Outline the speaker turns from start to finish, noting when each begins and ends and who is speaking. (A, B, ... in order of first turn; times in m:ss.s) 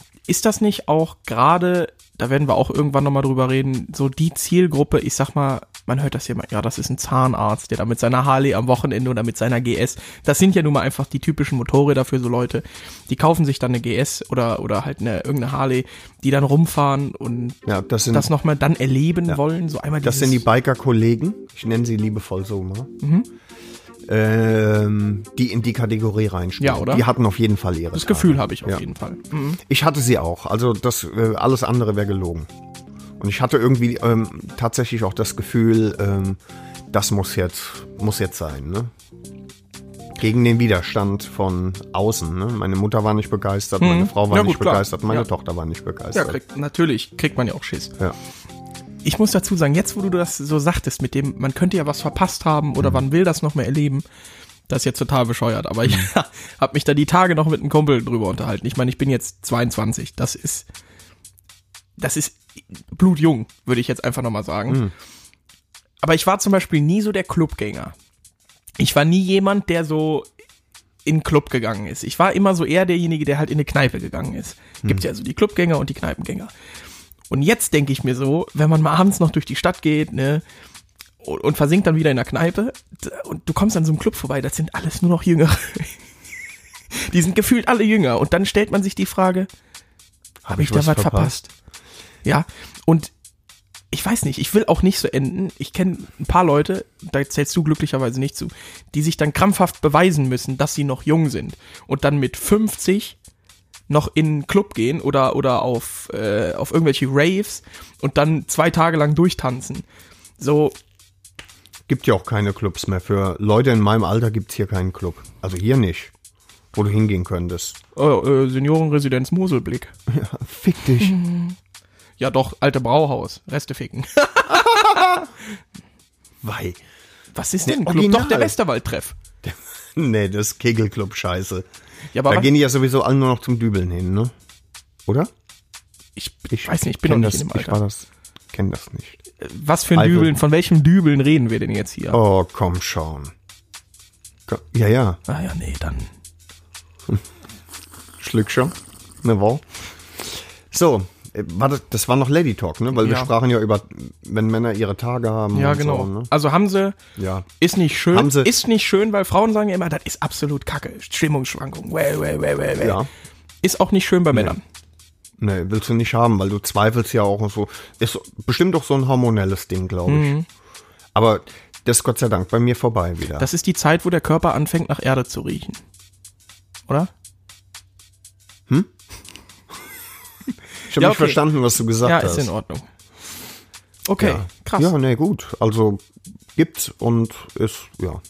0:00.3-0:20.4 A
0:17.6-0:18.3 B
0:20.0-0:22.9 B
0:23.0-0:23.3 A
0:24.1-0:28.8 B
0:26.6-0:27.0 A
0:27.9-0:29.6 A
0:29.6-0:32.5 B
0:33.2-0:36.4 B
0:36.9-0:38.9 B
0:40.2-0:46.4 B
0:43.8-0:45.3 A
0:46.1-0:48.0 A
0:49.0-0:54.0 A
0:54.7-1:00.7 A
1:02.0-1:04.8 A
1:04.7-1:04.9 B
1:06.0-1:07.9 A
1:08.8-1:10.3 A
1:11.0-1:16.5 A
1:17.3-1:20.4 A
1:21.2-1:26.0 A
1:26.9-1:29.5 A
1:30.4-1:31.4 B
1:30.5-1:31.5 A
1:32.2-1:33.1 A
1:33.9-1:43.2 A
1:43.9-1:49.9 A
1:50.4-1:50.8 A
1:51.9-1:56.1 B
1:56.7-1:57.8 B
1:58.0-1:59.9 A
2:00.1-2:01.2 B
2:01.0-2:01.6 A
2:02.2-2:05.3 A
2:04.5-2:05.3 B
2:06.4-2:06.8 B
2:07.3-2:09.2 A
2:07.6-2:08.6 B
2:09.4-2:11.7 B
2:12.1-2:12.5 A
2:12.2-2:14.3 B
2:16.2-2:17.8 A
2:16.5-2:19.2 B
2:19.4-2:22.2 A
2:19.9-2:20.3 B
2:22.1-2:23.3 B
2:24.5-2:25.2 B
2:25.3-2:26.1 A
2:28.2-2:36.3 B
2:33.0-2:33.3 A
2:35.5-2:37.0 A
2:37.2-2:37.5 B
2:37.6-2:43.0 A
2:38.1-2:38.5 B
2:42.8-2:43.1 B
2:43.6-2:44.6 A
2:45.4-2:50.3 B
2:50.0-2:50.4 A
2:51.1-2:53.5 B
2:53.4-2:55.8 A
3:00.9-3:02.5 B
3:00.9-3:01.4 A
3:02.0-3:02.9 A
3:04.0-3:04.9 A
3:04.2-3:06.0 B
3:06.6-3:08.2 B